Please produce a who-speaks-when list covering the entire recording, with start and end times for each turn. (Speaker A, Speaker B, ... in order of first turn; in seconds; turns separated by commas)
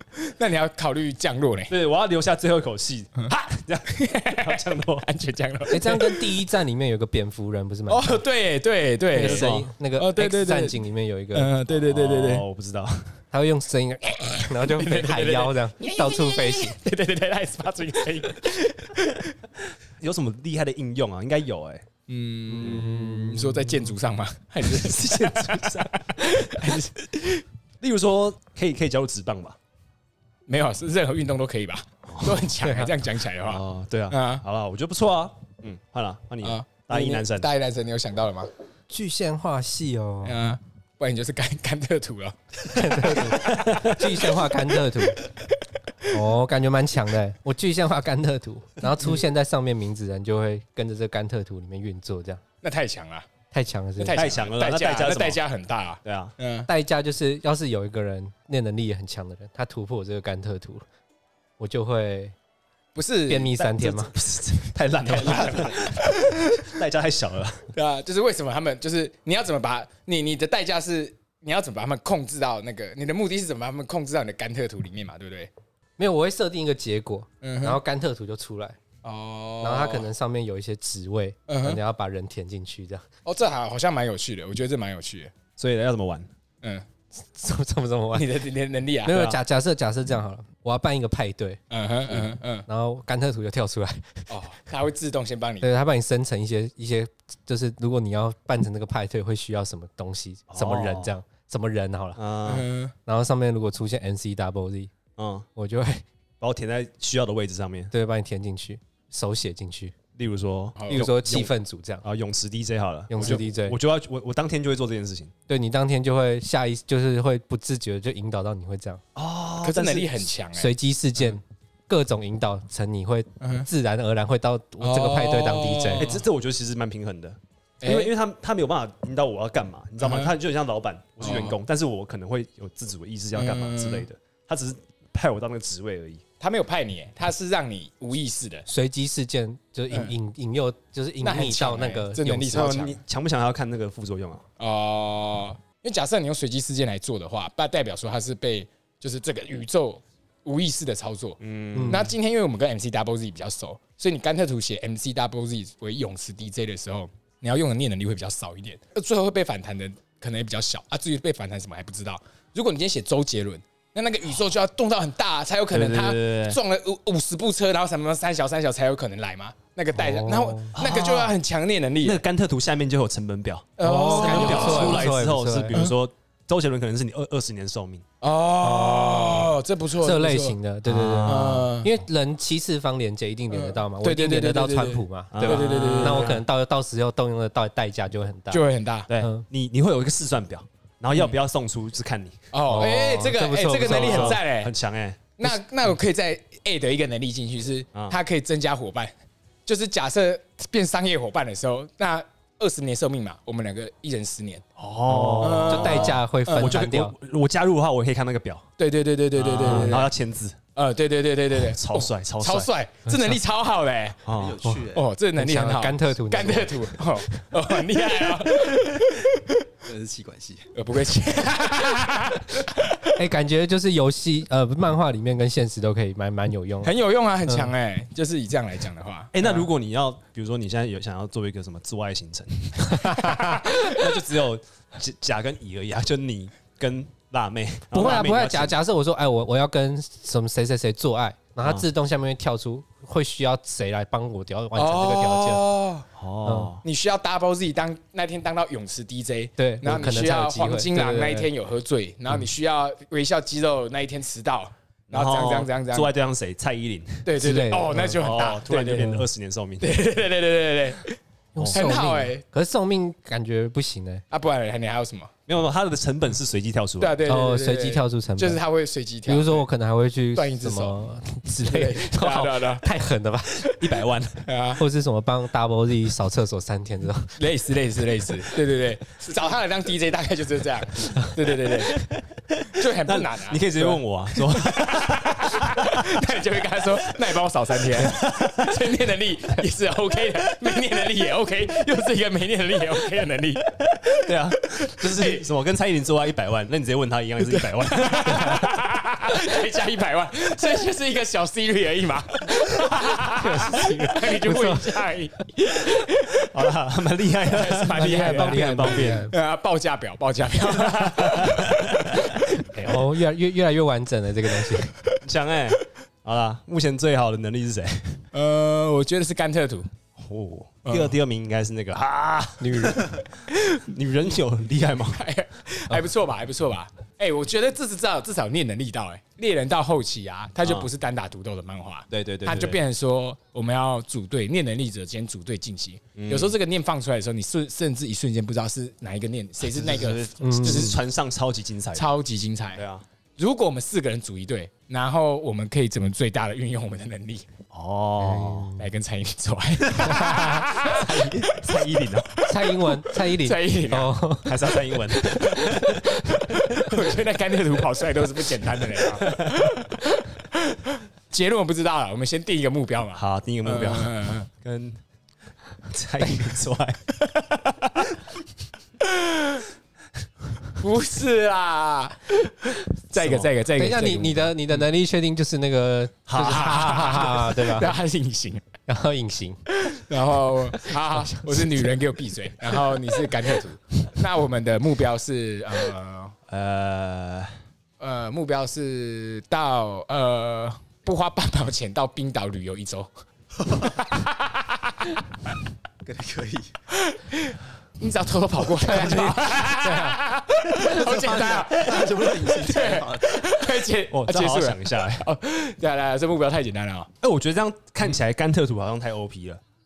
Speaker A: 0.2-1.7, Speaker B: 1.7-5.1, Speaker A: 3.9-6.3, Speaker C: 5.7-8.2, Speaker A: 7.9-10.8, Speaker C: 9.1-11.5, Speaker B: 9.2-9.7, Speaker A: 11.3-12.4, Speaker B: 11.8-13.2, Speaker C: 13.3-16.8, Speaker A: 14.3-19.3, Speaker B: 20.0-21.8, Speaker A: 22.1-27.4, Speaker C: 22.5-23.7, Speaker B: 22.6-22.9, Speaker B: 24.6-26.8, Speaker B: 27.8-29.6, Speaker A: 30.5-34.4, Speaker B: 32.1-32.5, Speaker C: 32.6-32.9, Speaker B: 33.4-37.5, Speaker A: 36.4-38.5, Speaker C: 38.9-40.4, Speaker A: 40.2-43.8, Speaker C: 42.7-45.2, Speaker B: 43.4-44.0, Speaker A: 44.3-44.6, Speaker C: 46.1-52.4, Speaker A: 52.6-53.3, Speaker C: 53.5-54.3, Speaker A: 54.0-56.7, Speaker B: 54.1-55.4, Speaker B: 56.0-56.3, Speaker C: 56.7-60.8, Speaker C: 61.6-62.3, Speaker A: 62.9-63.8, Speaker C: 63.3-64.1, Speaker B: 63.8-67.7, Speaker A: 65.0-66.7, Speaker A: 67.7-75.5, Speaker C: 76.0-78.8, Speaker A: 77.4-77.8, Speaker A: 79.0-80.1, Speaker C: 79.6-83.0, Speaker A: 81.5-81.8, Speaker A: 83.2-85.3, Speaker B: 85.6-86.3, Speaker C: 87.3-88.4, Speaker A: 88.1-89.3, Speaker C: 89.0-91.6, Speaker B: 89.1-89.4, Speaker A: 91.7-92.7, Speaker C: 92.1-94.0, Speaker A: 94.3-95.7, Speaker C: 95.6-102.2, Speaker B: 100.5-101.1, Speaker B: 102.2-102.7, Speaker A: 102.4-102.9, Speaker C: 103.0-104.9, Speaker B: 105.2-105.5, Speaker C: 105.5-106.0, Speaker B: 106.4-107.9, Speaker C: 107.9-109.9, Speaker B: 110.2-115.3, Speaker A: 110.8-111.1, Speaker C: 110.9-112.0, Speaker C: 113.1-113.8, Speaker C: 115.5-119.0, Speaker B: 119.1-120.3, Speaker A: 119.6-120.7, Speaker C: 120.6-126.1, Speaker A: 123.4-123.7, Speaker A: 124.8-126.2, Speaker B: 126.0-136.2, Speaker A: 127.8-128.1, Speaker A: 130.0-130.3, Speaker A: 131.2-131.6, Speaker A: 133.3-134.1, Speaker A: 136.4-138.7, Speaker C: 138.7-142.9, Speaker A: 141.2-143.0, Speaker B: 142.5-144.4, Speaker A: 144.6-172.2, Speaker B: 151.4-152.1, Speaker C: 151.7-152.1, Speaker B: 165.7-166.6, Speaker C: 169.9-170.7, Speaker B: 170.7-171.4, Speaker B: 172.0-178.0, Speaker A: 173.8-175.1, Speaker C: 173.8-175.8, Speaker A: 178.2-180.6, Speaker C: 178.6-188.6, Speaker B: 180.8-181.6, Speaker A: 181.2-181.9, Speaker A: 183.5-186.4, Speaker B: 185.3-186.4, Speaker A: 188.5-189.1, Speaker B: 189.1-192.4, Speaker C: 189.2-189.4, Speaker A: 192.5-194.7, Speaker C: 192.7-194.4, Speaker B: 193.8-195.2, Speaker A: 195.4-199.1, Speaker A: 199.7-204.6, Speaker B: 204.8-208.7, Speaker C: 205.1-207.1, Speaker A: 205.4-206.8, Speaker A: 208.8-210.1, Speaker B: 209.3-210.6, Speaker A: 210.7-214.2, Speaker B: 211.5-212.7, Speaker B: 214.2-214.6, Speaker D: 214.3-215.1, Speaker A: 214.9-219.7, Speaker C: 215.3-217.3, Speaker D: 219.8-220.7, Speaker A: 220.7-223.1, Speaker C: 223.2-226.9, Speaker A: 226.8-229.6, Speaker B: 229.3-238.8, Speaker C: 232.9-233.5, Speaker A: 233.1-233.9, Speaker C: 237.9-245.6, Speaker A: 238.0-238.2, Speaker A: 244.8-246.1, Speaker B: 246.2-246.8, Speaker C: 246.4-246.7, Speaker A: 246.8-256.1, Speaker C: 249.6-251.5, Speaker B: 255.1-257.3, Speaker A: 257.2-259.2, Speaker C: 257.3-258.2, Speaker B: 258.2-260.0, Speaker A: 259.8-261.2, Speaker C: 261.5-264.2, Speaker B: 261.6-261.8, Speaker A: 261.7-262.4, Speaker A: 264.3-265.3, Speaker B: 265.5-267.2, Speaker A: 267.0-269.6, Speaker C: 267.2-268.6, Speaker C: 269.2-273.8, Speaker A: 270.3-271.0, Speaker A: 271.6-272.8, Speaker B: 273.6-274.4, Speaker A: 274.4-274.8, Speaker C: 274.8-277.4, Speaker A: 277.4-282.1, Speaker A: 282.7-293.8, Speaker B: 282.8-286.1, Speaker B: 287.9-288.9, Speaker B: 294.0-298.7, Speaker A: 294.9-295.4, Speaker A: 297.5-306.4, Speaker C: 303.3-304.9, Speaker B: 306.4-309.3, Speaker A: 307.5-312.9, Speaker C: 307.9-309.3, Speaker B: 310.7-312.1, Speaker C: 312.7-314.9, Speaker A: 314.7-315.1, Speaker B: 315.2-318.2, Speaker A: 318.3-319.9, Speaker B: 320.2-325.2, Speaker A: 320.9-321.2, Speaker C: 322.6-323.1, Speaker A: 325.1-341.0, Speaker B: 330.6-330.9, Speaker B: 332.1-332.8, Speaker B: 336.1-336.6, Speaker B: 339.6-342.1, Speaker C: 340.4-340.9, Speaker A: 341.9-342.8, Speaker B: 342.7-343.0, Speaker A: 343.4-347.5, Speaker B: 347.7-348.8, Speaker C: 348.2-348.8, Speaker A: 348.8-351.8, Speaker C: 350.0-350.7, Speaker B: 350.6-352.4, Speaker A: 352.3-354.1, Speaker C: 352.4-354.6, Speaker B: 354.4-357.0, Speaker A: 355.0-364.5, Speaker B: 358.9-359.7, Speaker B: 363.1-365.0, Speaker B: 365.9-367.1, Speaker A: 369.0-369.6, Speaker A: 370.8-374.5, Speaker B: 373.2-373.5, Speaker C: 373.7-377.9, Speaker B: 376.3-377.5, Speaker A: 376.4-378.6, Speaker C: 378.9-379.6, Speaker A: 379.7-386.3, Speaker B: 386.5-387.6, Speaker A: 388.0-393.1, Speaker A: 393.6-395.2, Speaker D: 396.0-396.7, Speaker A: 397.0-407.1, Speaker C: 398.8-400.2, Speaker D: 400.8-403.5, Speaker B: 404.1-405.3, Speaker B: 407.2-409.6